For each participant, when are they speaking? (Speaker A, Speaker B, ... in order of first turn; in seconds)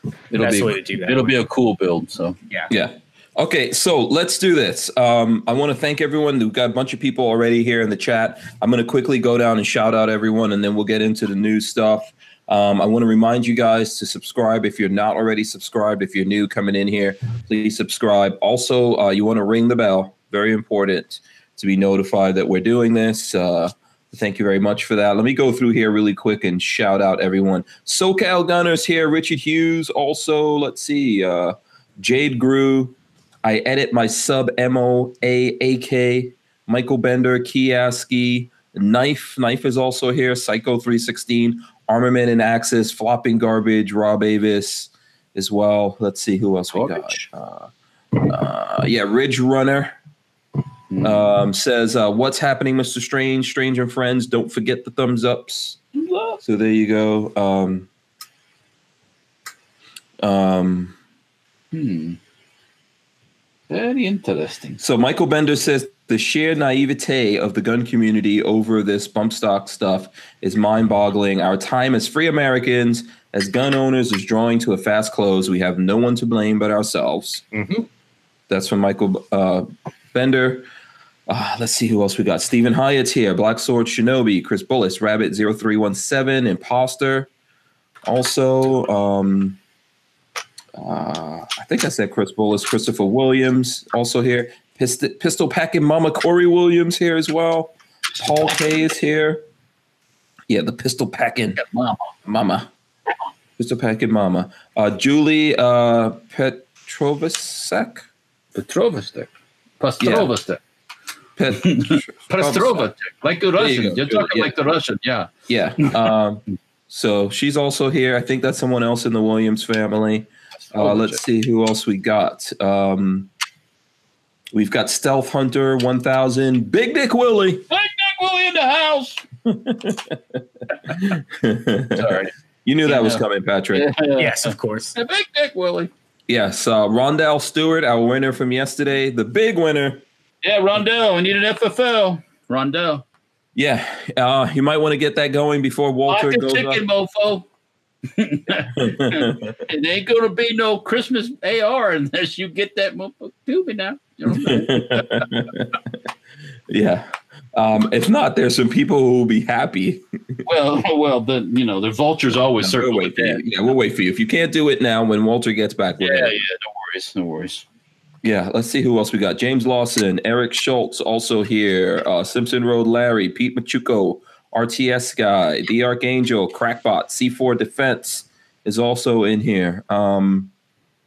Speaker A: 0.3-2.4, 46.7-47.3, 50.9-51.3, 55.9-56.4, 61.7-62.2, 63.7-64.8, 101.6-102.1, 108.5-110.6, 111.6-116.1, 120.7-121.2, 127.7-129.2, 131.9-132.3, 132.8-133.2, 133.7-135.9, 140.4-143.0, 146.1-147.5, 148.1-155.3, 160.5-163.4, 166.0-167.7
Speaker B: 0.4-1.3, 77.5-77.9, 134.2-134.9
Speaker C: 2.7-50.0, 51.0-55.8, 56.4-57.9, 60.2-61.0, 64.8-77.4, 78.5-80.7, 81.3-87.3, 88.0-89.6, 90.8-99.4, 100.5-101.6, 102.2-102.7, 103.6-108.1, 110.0-110.3, 111.4-112.9, 113.6-114.5, 115.5-123.3, 124.5-127.6, 129.4-133.9, 136.3-140.0, 143.6-146.8, 148.8-149.6, 154.3-155.9, 156.7-160.4, 162.6-166.4, 168.2-180.5